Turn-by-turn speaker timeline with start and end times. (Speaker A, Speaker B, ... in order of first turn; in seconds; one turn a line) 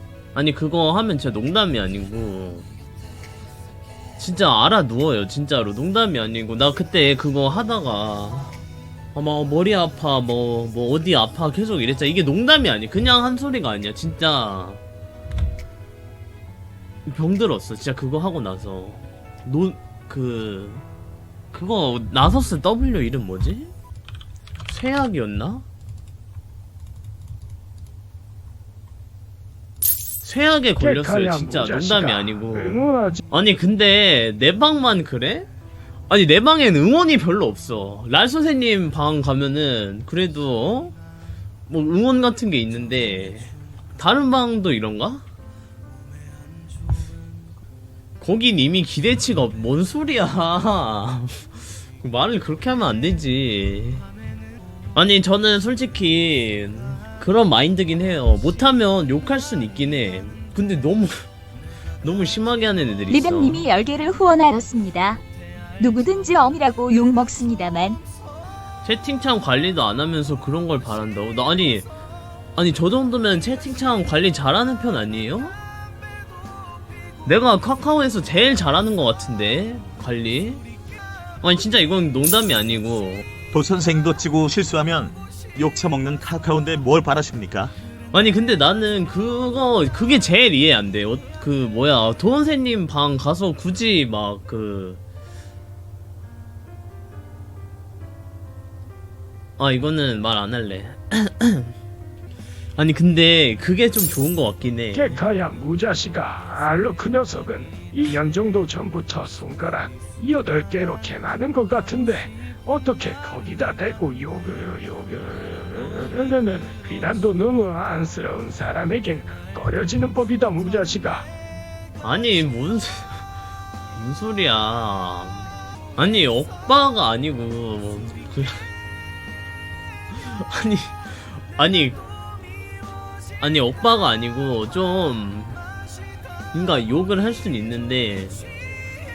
Speaker A: 0.3-2.7
Speaker A: 4.2-8.5
Speaker A: 9.1-14.8
Speaker A: 17.1-20.9
Speaker A: 21.5-23.7
Speaker A: 24.6-25.6
Speaker A: 30.2-35.5
Speaker B: 30.8-33.2
Speaker A: 36.1-40.9
Speaker A: 41.7-45.2
Speaker A: 48.2-54.0
Speaker A: 54.9-61.2
Speaker A: 62.0-63.6
Speaker C: 63.1-65.2
Speaker C: 65.8-68.0
Speaker A: 68.8-71.9
Speaker A: 72.5-75.5
Speaker A: 77.2-80.6
Speaker A: 81.4-83.2
Speaker D: 83.5-87.7
Speaker A: 88.1-95.0
Speaker A: 99.6-101.7
Speaker A: 102.8-105.2
Speaker B: 104.9-121.3
Speaker A: 122.0-123.2
Speaker A: 123.9-128.7
Speaker A: 130.1-132.0
Speaker A: 133.4-135.6
Speaker A: 136.5-138.4